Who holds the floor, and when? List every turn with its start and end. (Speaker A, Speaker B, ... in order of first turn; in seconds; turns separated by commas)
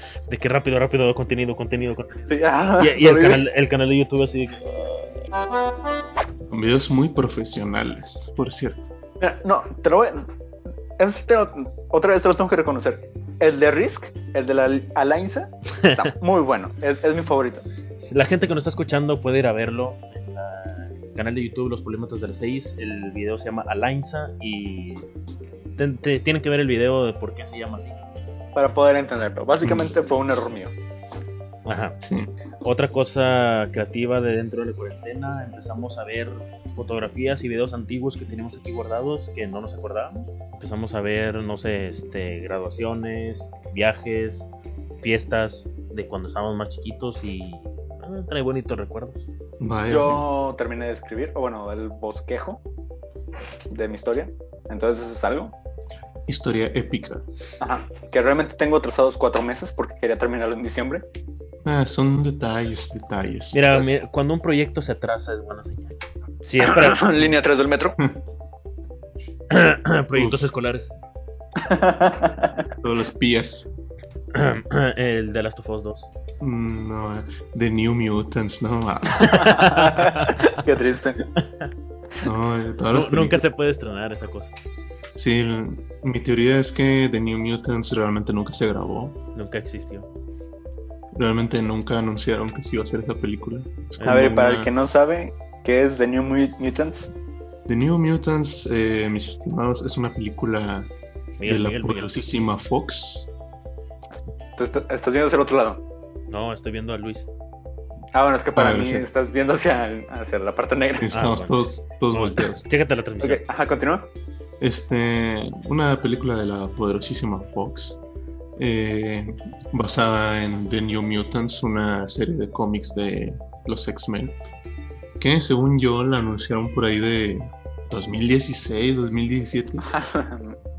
Speaker A: 0.3-5.3, Speaker B: 2.3-3.5, Speaker C: 6.5-8.8, Speaker B: 9.2-10.3, Speaker B: 11.0-17.6, Speaker A: 15.8-16.1, Speaker A: 18.0-25.1, Speaker A: 25.8-28.0, Speaker B: 28.6-30.7, Speaker C: 29.6-29.9, Speaker A: 31.6-32.0, Speaker C: 32.0-32.3, Speaker A: 32.6-44.5, Speaker A: 45.0-49.3, Speaker C: 49.6-50.2, Speaker B: 49.9-52.6, Speaker B: 53.7-55.5, Speaker C: 56.3-57.2, Speaker B: 57.6-61.0, Speaker C: 61.6-63.9, Speaker A: 63.5-67.2, Speaker B: 66.6-68.0, Speaker A: 69.5-70.9, Speaker C: 70.1-70.5, Speaker B: 71.6-72.7, Speaker C: 72.8-73.7, Speaker A: 74.3-76.1, Speaker C: 76.4-79.5, Speaker B: 79.1-81.2, Speaker A: 79.3-80.6, Speaker A: 81.4-81.7, Speaker C: 82.2-83.4, Speaker A: 82.9-84.6, Speaker C: 85.2-89.2, Speaker A: 89.3-90.1, Speaker C: 91.1-94.7, Speaker A: 94.0-94.3, Speaker B: 94.0-97.1, Speaker C: 97.7-100.9, Speaker A: 101.4-102.2, Speaker C: 101.5-103.3, Speaker B: 104.6-105.8, Speaker A: 106.3-107.3, Speaker B: 108.1-111.1, Speaker C: 108.5-109.1, Speaker C: 111.0-112.7, Speaker A: 111.1-111.6, Speaker A: 112.1-113.4, Speaker B: 113.2-114.1, Speaker C: 114.6-118.0, Speaker C: 118.6-124.4, Speaker C: 125.2-129.9, Speaker B: 129.8-130.6